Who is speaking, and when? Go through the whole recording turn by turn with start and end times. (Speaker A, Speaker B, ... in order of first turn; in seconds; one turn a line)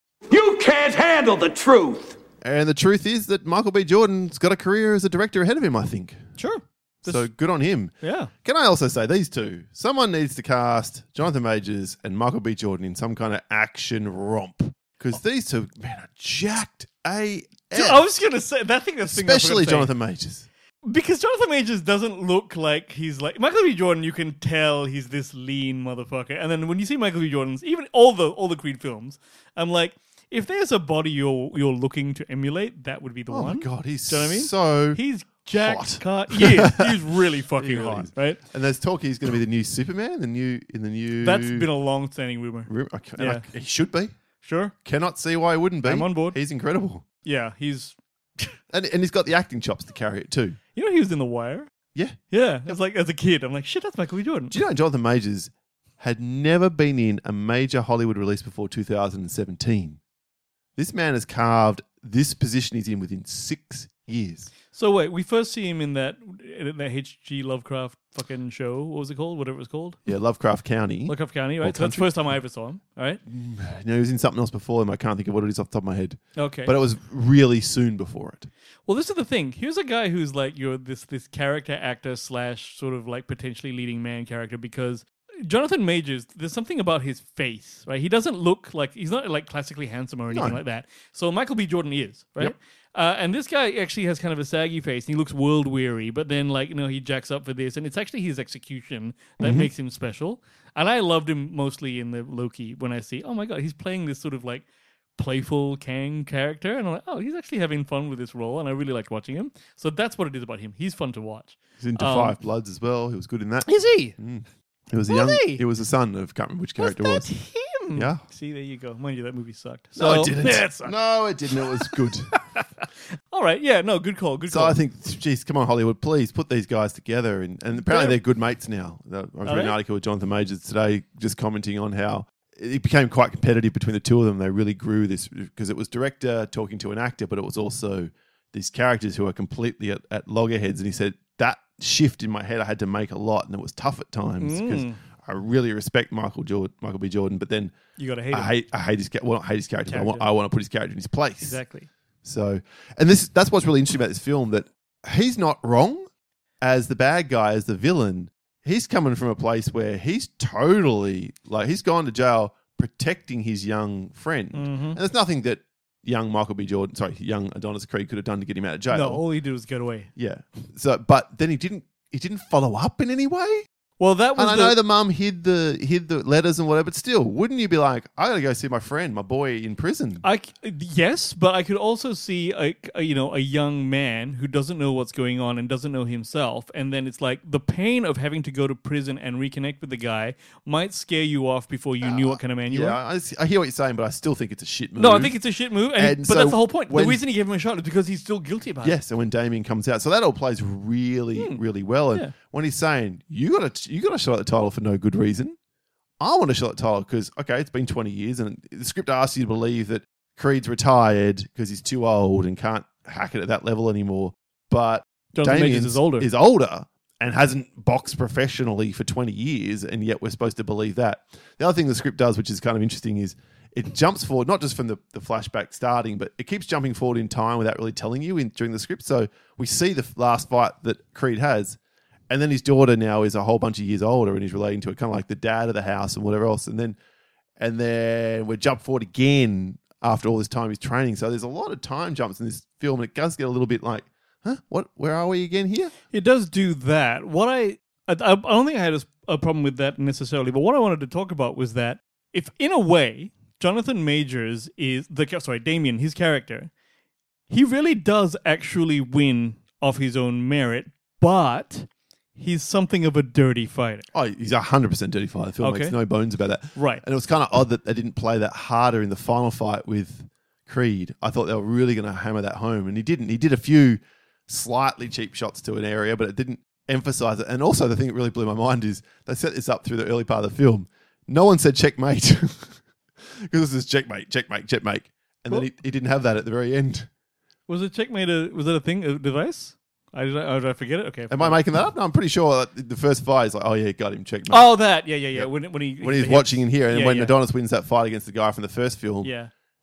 Speaker A: 0.3-2.2
Speaker B: 2.4-6.2
Speaker C: 6.4-7.2
Speaker B: 7.0-18.1
Speaker C: 8.0-8.3
Speaker C: 17.7-19.9
Speaker B: 19.1-20.5
Speaker C: 20.9-38.4
Speaker B: 33.3-35.0
Speaker B: 35.5-36.9
Speaker B: 37.6-41.7
Speaker C: 41.2-43.5
Speaker B: 42.7-44.1
Speaker C: 44.4-44.7
Speaker B: 44.8-47.0
Speaker C: 45.8-46.4
Speaker C: 47.2-48.5
Speaker B: 48.7-50.6
Speaker C: 50.8-51.7
Speaker C: 52.3-54.6
Speaker B: 54.5-60.0
Speaker B: 60.8-64.5
Speaker C: 64.7-70.0
Speaker B: 70.1-72.1
Speaker C: 71.1-73.2
Speaker B: 73.3-78.5
Speaker C: 76.4-76.7
Speaker C: 78.9-104.7
Speaker B: 90.3-90.6
Speaker B: 99.4-99.7
Speaker C: 105.2-112.3
Speaker B: 111.8-117.3
Speaker C: 113.7-114.2
Speaker C: 115.1-115.6
Speaker C: 116.8-121.0
Speaker B: 117.9-118.2
Speaker B: 120.0-122.3
Speaker C: 121.6-124.8
Speaker B: 124.5-147.8
Speaker C: 127.8-128.2
Speaker C: 129.4-129.8
Speaker C: 144.4-145.0
Speaker C: 148.0-148.5
Speaker B: 148.3-151.6
Speaker C: 149.9-150.3
Speaker C: 151.4-151.9
Speaker B: 152.2-156.1
Speaker B: 156.6-169.2
Speaker C: 164.5-165.0
Speaker C: 168.9-170.1
Speaker B: 170.2-173.7
Speaker C: 174.0-174.8
Speaker B: 174.4-180.2
Speaker C: 180.2-193.0
Speaker B: 192.0-195.3
Speaker C: 195.0-199.0
Speaker B: 195.9-197.2
Speaker B: 198.8-205.6
Speaker C: 201.3-201.6
Speaker B: 206.2-231.8
Speaker C: 215.3-216.3
Speaker B: 232.3-237.0
Speaker B: 237.6-245.9
Speaker C: 246.1-256.7
Speaker C: 257.5-264.1
Speaker B: 264.1-282.8
Speaker C: 265.6-266.0
Speaker C: 266.8-267.0
Speaker B: 283.4-287.1
Speaker C: 287.7-291.6
Speaker B: 291.3-294.7
Speaker C: 294.5-297.4
Speaker B: 295.3-299.3
Speaker C: 299.2-299.5